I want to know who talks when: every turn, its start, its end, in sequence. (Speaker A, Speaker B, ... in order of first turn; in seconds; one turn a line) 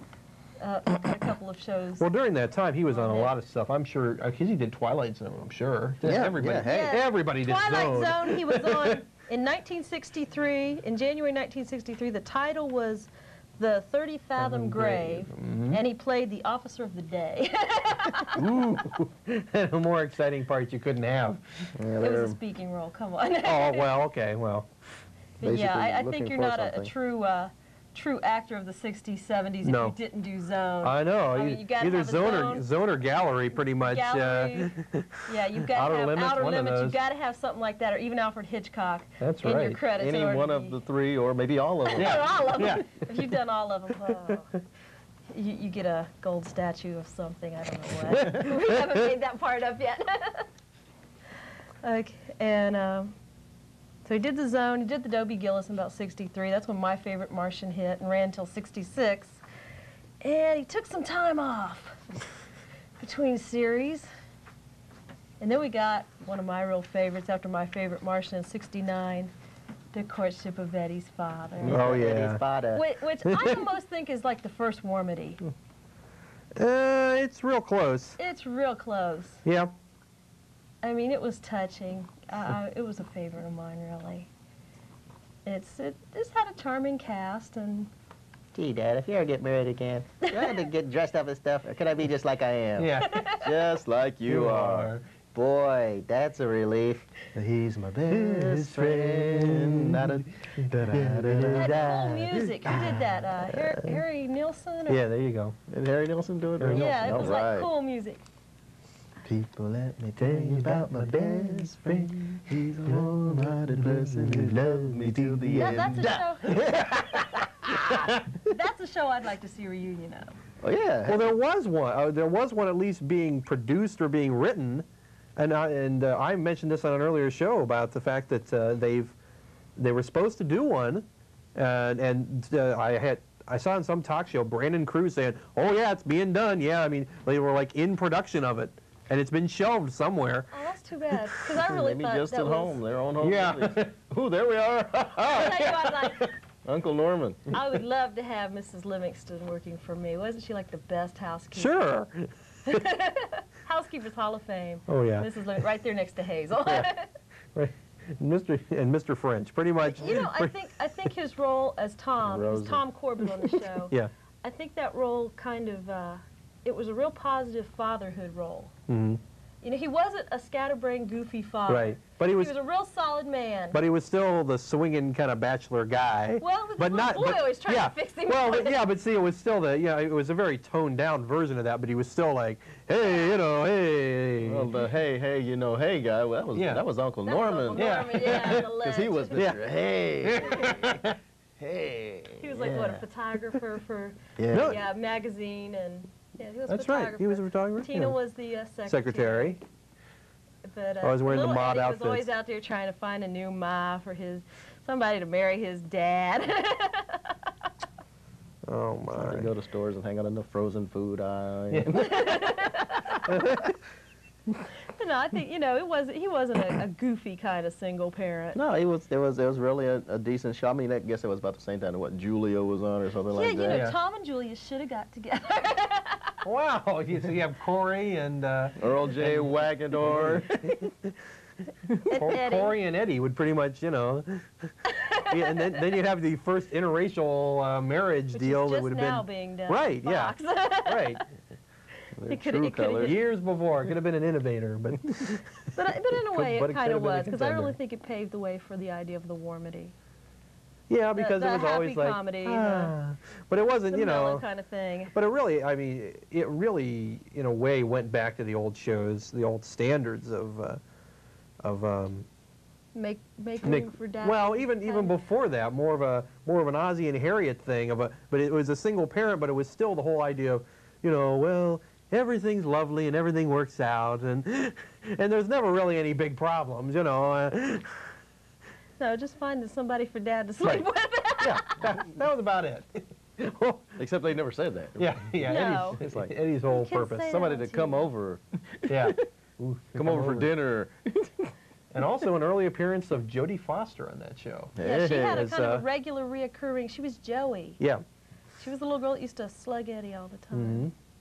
Speaker A: 0.6-2.1
Speaker B: 2.0-9.0
Speaker A: 2.9-3.3
Speaker C: 6.0-7.0
Speaker A: 6.7-18.4
Speaker B: 14.4-15.8
Speaker B: 18.3-21.7
Speaker C: 21.8-22.4
Speaker A: 22.0-23.9
Speaker B: 23.4-24.7
Speaker A: 25.4-32.7
Speaker C: 25.4-26.9
Speaker B: 29.6-30.0
Speaker B: 30.8-37.0
Speaker A: 33.8-34.7
Speaker A: 35.3-40.8
Speaker B: 39.2-39.8
Speaker C: 40.0-42.2
Speaker A: 41.9-44.6
Speaker B: 42.0-43.1
Speaker A: 45.3-50.5
Speaker B: 48.2-48.6
Speaker A: 51.8-53.2
Speaker A: 54.0-59.4
Speaker A: 60.2-62.0
Speaker A: 63.0-64.1
Speaker A: 65.4-69.3
Speaker A: 69.9-71.9
Speaker C: 71.6-72.8
Speaker B: 71.7-72.4
Speaker A: 72.7-75.4
Speaker B: 73.3-73.6
Speaker B: 76.6-78.2
Speaker A: 78.2-79.4
Speaker B: 79.5-79.7
Speaker A: 80.8-84.3
Speaker A: 85.5-87.9
Speaker C: 88.5-102.1
Speaker A: 90.3-90.6
Speaker B: 92.8-93.2
Speaker A: 93.0-93.5
Speaker B: 94.3-95.0
Speaker B: 98.1-102.9
Speaker A: 101.6-105.0
Speaker C: 103.5-104.0
Speaker B: 104.9-105.6
Speaker C: 105.7-107.7
Speaker B: 106.6-107.4
Speaker A: 106.7-108.2
Speaker C: 109.2-116.2
Speaker B: 110.2-118.4
Speaker A: 115.6-117.5
Speaker A: 118.5-120.3
Speaker C: 120.6-121.3
Speaker B: 121.1-124.8
Speaker B: 125.4-129.2
Speaker B: 129.8-140.5
Speaker A: 140.5-142.8
Speaker C: 141.6-145.6
Speaker B: 143.2-144.0
Speaker A: 145.3-146.3
Speaker B: 145.3-146.3
Speaker C: 146.7-147.6
Speaker A: 147.5-151.8
Speaker B: 151.5-152.8
Speaker A: 152.7-157.1
Speaker B: 154.9-155.3
Speaker B: 157.6-160.6
Speaker A: 159.8-168.7
Speaker C: 162.2-162.8
Speaker B: 168.9-169.2
Speaker A: 169.6-173.8
Speaker B: 171.7-172.5
Speaker B: 173.7-184.7
Speaker A: 176.4-178.8
Speaker C: 184.4-191.1
Speaker B: 186.6-186.8
Speaker A: 187.2-189.5
Speaker B: 187.7-188.7
Speaker B: 189.3-189.6
Speaker B: 190.2-191.2
Speaker C: 191.6-193.0
Speaker A: 192.4-199.6
Speaker C: 194.4-194.8
Speaker B: 194.5-194.8
Speaker B: 196.7-198.2
Speaker B: 198.9-199.6
Speaker A: 200.7-207.4
Speaker B: 201.0-202.3
Speaker B: 208.7-209.5
Speaker C: 209.1-212.4
Speaker B: 211.7-212.0
Speaker A: 211.9-213.4
Speaker B: 213.3-213.8
Speaker A: 214.9-218.6
Speaker C: 218.5-223.8
Speaker A: 223.3-226.4
Speaker B: 223.7-224.0
Speaker B: 226.4-231.1
Speaker C: 228.8-230.8
Speaker C: 231.9-232.3
Speaker A: 232.1-232.8
Speaker B: 232.1-234.5
Speaker A: 234.9-235.8
Speaker B: 235.3-241.3
Speaker A: 238.3-241.2
Speaker C: 242.2-243.2
Speaker A: 242.3-243.2
Speaker B: 243.0-245.5
Speaker A: 245.8-249.9
Speaker B: 246.2-247.8
Speaker B: 250.9-254.4
Speaker A: 251.2-252.9
Speaker A: 253.9-255.1
Speaker B: 255.1-260.8
Speaker B: 261.6-262.3
Speaker A: 262.9-265.1
Speaker B: 263.6-278.1
Speaker A: 279.0-281.8
Speaker B: 281.4-283.9
Speaker C: 284.0-285.2
Speaker B: 285.0-287.3
Speaker A: 285.4-286.0
Speaker C: 286.0-286.3
Speaker A: 286.7-288.1
Speaker C: 287.2-289.2
Speaker B: 288.9-290.5
Speaker C: 290.0-291.5
Speaker B: 291.9-295.9
Speaker C: 294.8-295.4
Speaker A: 294.8-297.8
Speaker A: 298.6-300.9
Speaker B: 300.5-300.9